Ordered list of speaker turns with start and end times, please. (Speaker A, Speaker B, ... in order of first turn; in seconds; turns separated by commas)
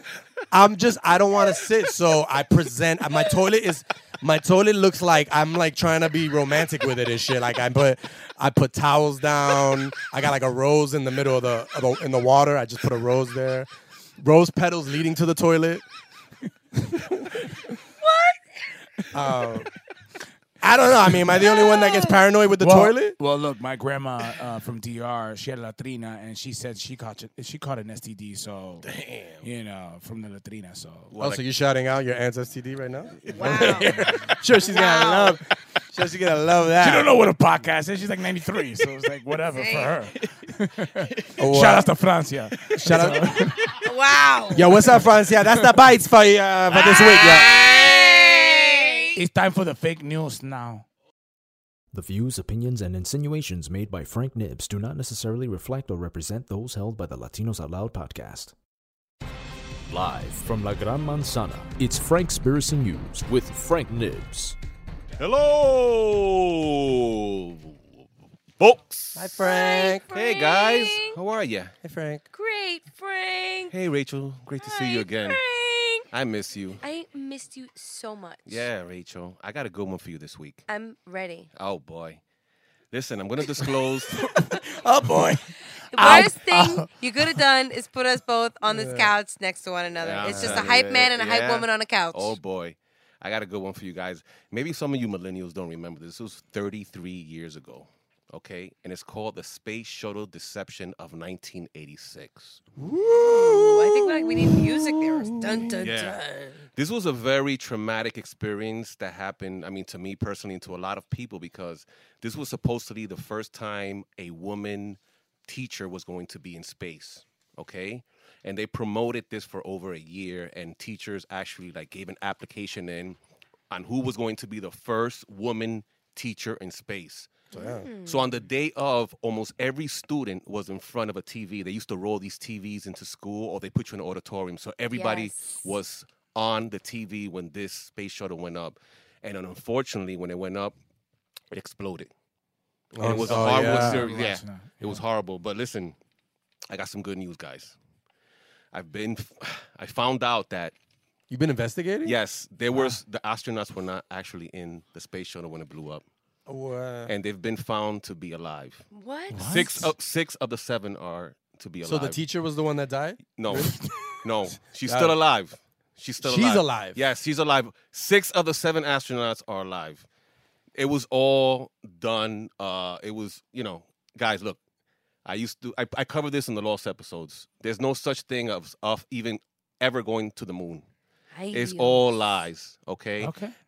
Speaker A: 0.5-13.7, Speaker A: 14.2-15.8, Speaker A: 16.9-17.4, Speaker B: 18.0-18.4, Speaker A: 19.1-19.7, Speaker A: 20.6-23.2, Speaker B: 21.4-22.1, Speaker C: 22.6-28.9, Speaker D: 28.8-29.4, Speaker C: 29.4-31.1, Speaker D: 31.1-31.4, Speaker A: 31.2-37.2, Speaker D: 33.3-33.6, Speaker B: 33.3-34.0, Speaker C: 33.4-34.3, Speaker B: 34.7-35.4, Speaker C: 36.8-43.7, Speaker B: 39.5-40.0, Speaker A: 41.4-41.9, Speaker A: 42.8-43.5, Speaker B: 43.8-44.7, Speaker A: 44.5-47.5, Speaker B: 46.7-49.2, Speaker C: 49.1-50.9, Speaker E: 51.9-58.5, Speaker E: 59.9-64.6, Speaker D: 65.2-67.8, Speaker D: 68.6-69.3, Speaker A: 69.1-70.1, Speaker B: 69.4-71.2, Speaker D: 70.1-71.8, Speaker A: 71.8-72.2, Speaker B: 72.3-73.7, Speaker D: 73.7-75.4, Speaker B: 74.6-76.1, Speaker D: 76.1-76.8, Speaker B: 76.8-78.7, Speaker D: 78.5-80.6, Speaker B: 80.7-81.5, Speaker D: 81.5-82.2, Speaker D: 82.9-84.3, Speaker C: 83.6-86.9, Speaker B: 85.9-92.4, Speaker A: 88.7-89.1, Speaker D: 90.0-102.6, Speaker A: 90.2-90.7, Speaker C: 102.8-103.1, Speaker B: 103.1-106.6, Speaker D: 105.8-106.2, Speaker D: 106.7-123.2, Speaker D: 123.7-127.3, Speaker B: 127.5-128.2, Speaker A: 127.5-127.9, Speaker D: 128.0-140.8, Speaker B: 134.9-135.6, Speaker D: 141.5-142.1, Speaker D: 142.9-145.9, Speaker A: 143.0-144.1, Speaker C: 143.1-145.0, Speaker D: 146.7-147.8, Speaker D: 148.7-150.7, Speaker A: 151.3-152.2, Speaker D: 152.0-156.0, Speaker C: 152.7-153.0, Speaker A: 156.5-157.1, Speaker D: 157.1-158.9, Speaker B: 158.9-159.4, Speaker C: 159.3-159.9, Speaker D: 159.4-162.2, Speaker A: 161.8-163.8, Speaker D: 163.4-170.1, Speaker C: 163.5-164.2, Speaker A: 164.9-165.1, Speaker A: 166.2-167.0, Speaker D: 170.8-174.6, Speaker D: 175.2-180.8, Speaker B: 181.3-182.3, Speaker D: 181.5-183.3, Speaker C: 183.2-183.5